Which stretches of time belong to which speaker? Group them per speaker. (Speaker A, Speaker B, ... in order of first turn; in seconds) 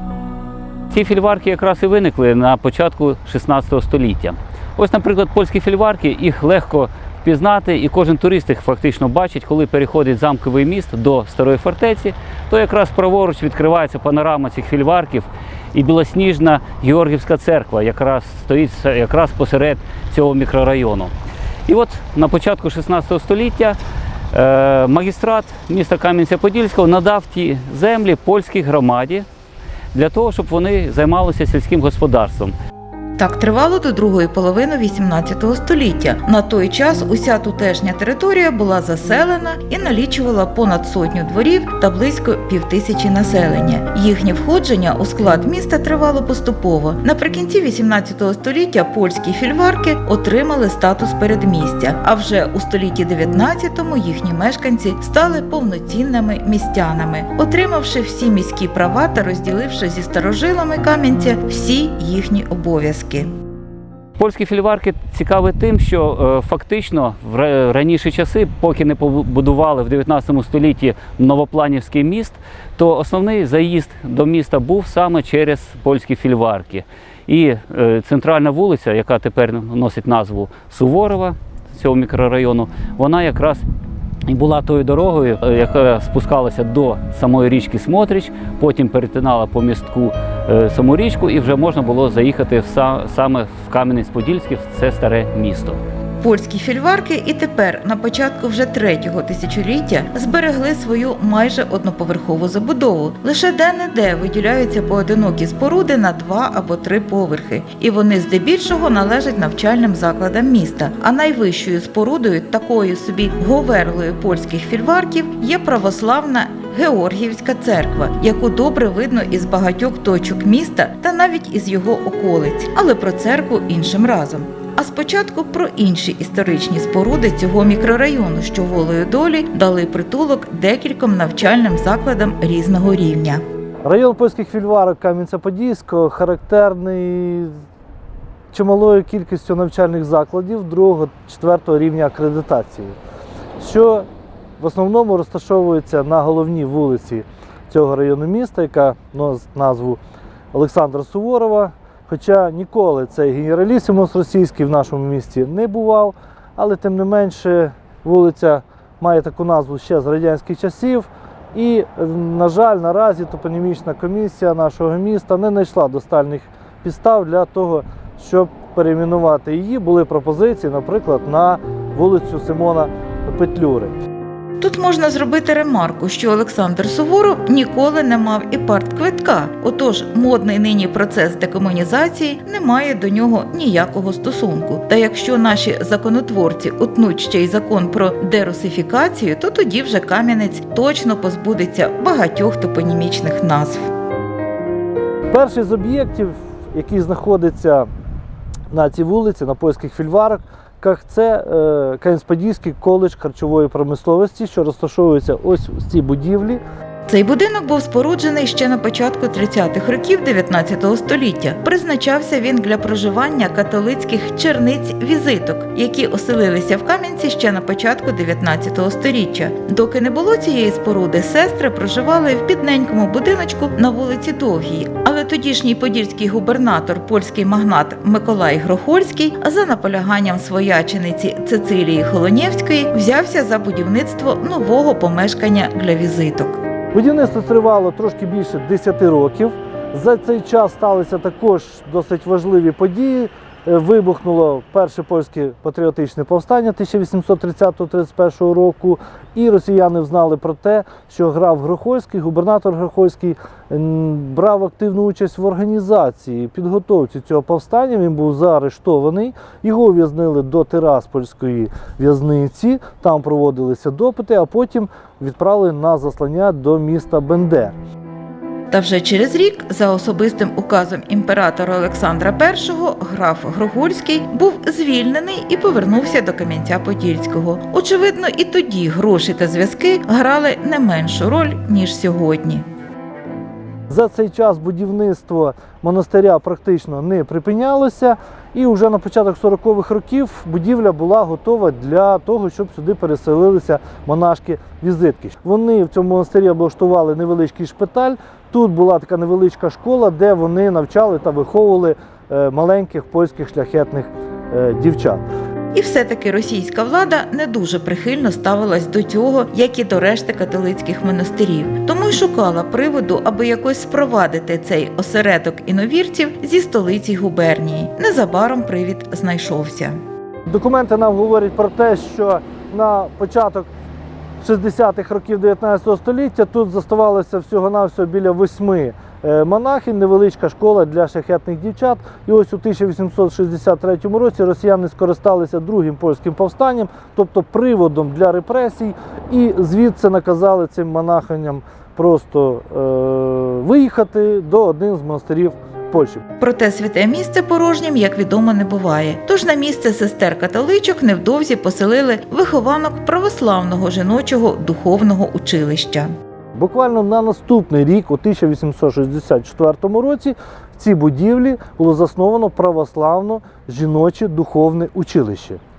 Speaker A: 0.9-21.1, 21.7-23.8, 24.3-29.3, 29.9-32.5, 64.2-83.6, 84.3-95.8
Speaker B: 33.2-63.3, 96.2-133.4, 174.6-193.9, 207.1-236.6, 268.7-282.6, 305.7-320.0, 346.4-356.1
Speaker C: 133.8-137.6, 138.5-143.0, 143.6-144.1, 144.6-150.0, 150.5-174.0, 195.3-197.9, 198.7-206.6, 236.9-267.8, 283.9-305.3, 320.5-323.7, 324.4-346.2, 356.6-365.6